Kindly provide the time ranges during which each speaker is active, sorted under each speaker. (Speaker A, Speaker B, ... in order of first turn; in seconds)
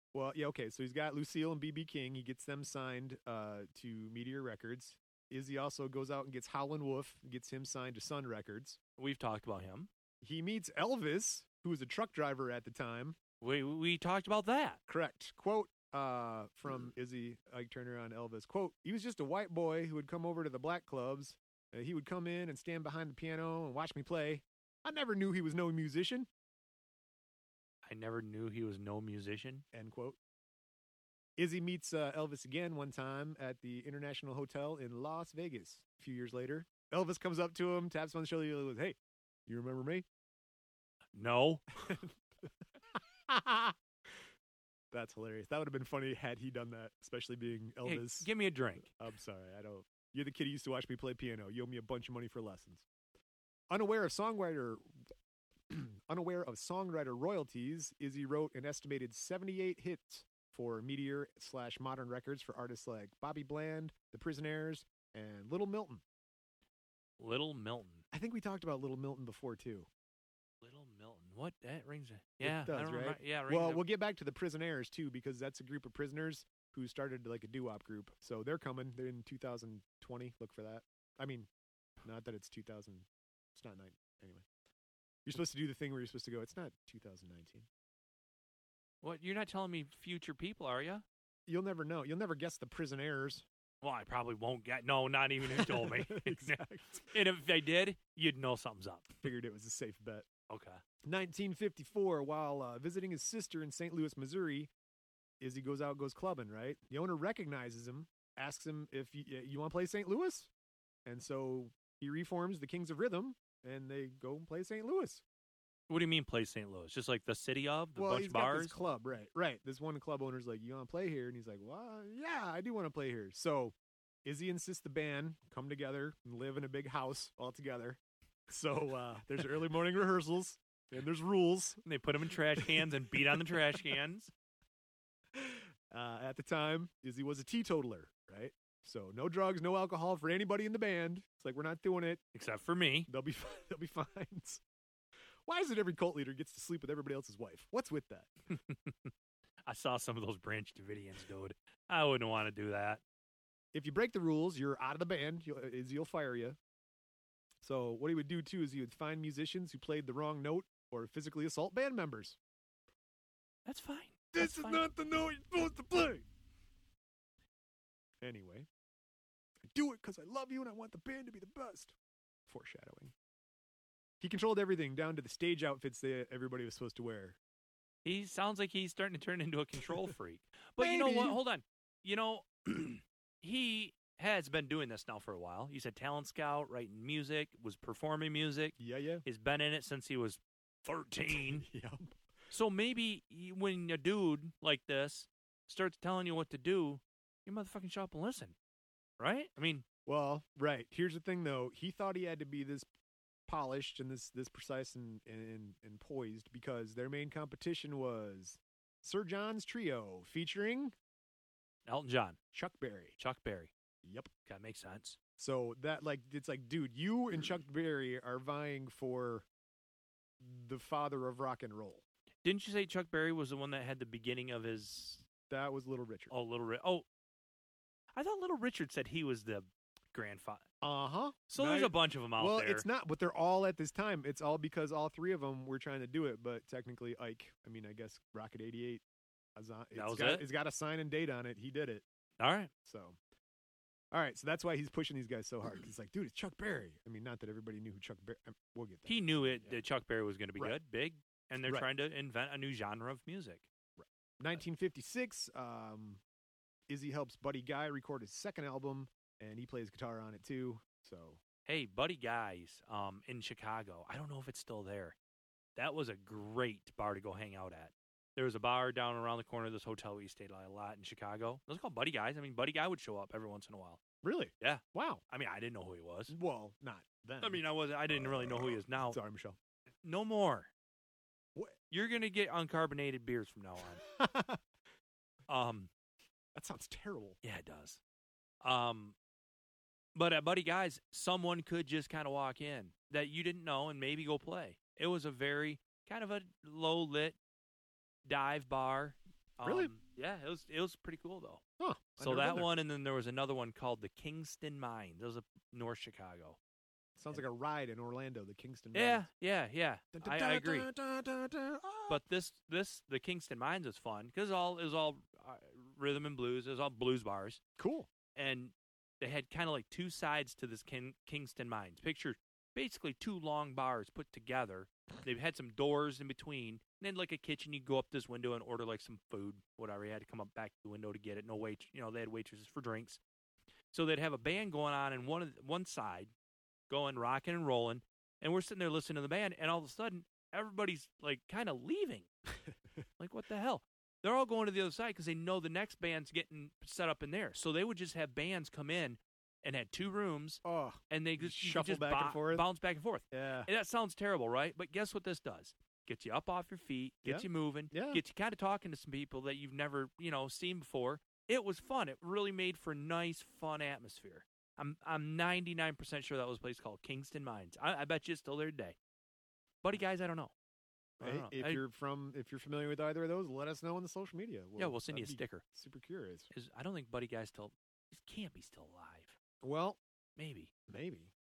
Speaker A: 0.1-8.8, 10.2-13.2, 14.9-26.3, 29.7-30.2, 31.4-40.0, 41.8-43.8, 44.9-48.3, 49.0-52.8, 53.7-54.9, 55.7-66.0, 68.1-69.9, 72.4-81.5, 82.0-84.4, 85.2-87.7, 91.5-93.4, 95.5-97.1, 99.2-100.3, 101.0-104.7, 105.4-110.5, 111.0-115.2, 118.0-131.8, 132.5-133.6, 135.3-142.2, 143.1-144.6, 145.4-148.3, 153.7-156.6, 157.6-162.4, 164.3-166.2, 168.2-168.7, 169.7-171.9, 172.5-173.1, 174.2-177.4, 180.8-181.4, 188.8-189.2, 191.3-192.1, 200.0-202.9, 203.5-210.9, 212.5-213.2, 214.0-214.3, 215.4-219.4, 220.4-222.0, 225.5-226.3, 230.8-239.0, 239.6-242.0, 242.8-243.2, 244.1-249.8, 254.0-256.2, 256.9-261.4, 274.2-275.2, 276.3-279.6, 284.1-284.6, 286.5-287.4, 299.6-299.9, 301.8-302.7, 307.2-309.3, 310.1-312.2, 317.8-318.1, 350.6-352.7, 353.3-353.7, 357.2-358.2, 371.2-376.5, 379.6-380.0, 380.9-381.3
Speaker B: 9.0-9.9, 13.4-14.8, 27.8-29.6, 41.1-41.6, 47.8-48.9, 67.2-68.0, 70.6-73.8, 89.0-91.0, 93.8-99.2, 100.5-100.8, 115.9-118.7, 131.8-134.3, 142.3-143.1, 148.5-149.1, 149.7-153.0, 163.7-164.8, 178.0-191.7, 192.5-198.5, 199.2-199.8, 211.9-212.4, 213.2-213.7, 214.4-215.2, 222.4-225.3, 226.3-227.0, 228.1-230.7, 231.5-232.8, 239.9-240.4, 242.4-242.7, 249.1-253.7, 261.6-265.1, 265.8-274.0, 274.6-276.3, 277.4-279.2, 280.0-280.7, 281.9-284.0, 285.5-285.9, 287.4-288.0, 288.6-289.1, 290.1-297.4, 298.2-301.6, 302.2-306.6, 308.9-310.9, 312.1-317.6, 318.3-333.2, 333.9-336.3, 336.9-342.3, 343.2-369.0, 369.8-370.5, 371.2-371.8, 374.8-375.6, 376.5-379.4, 380.4-380.7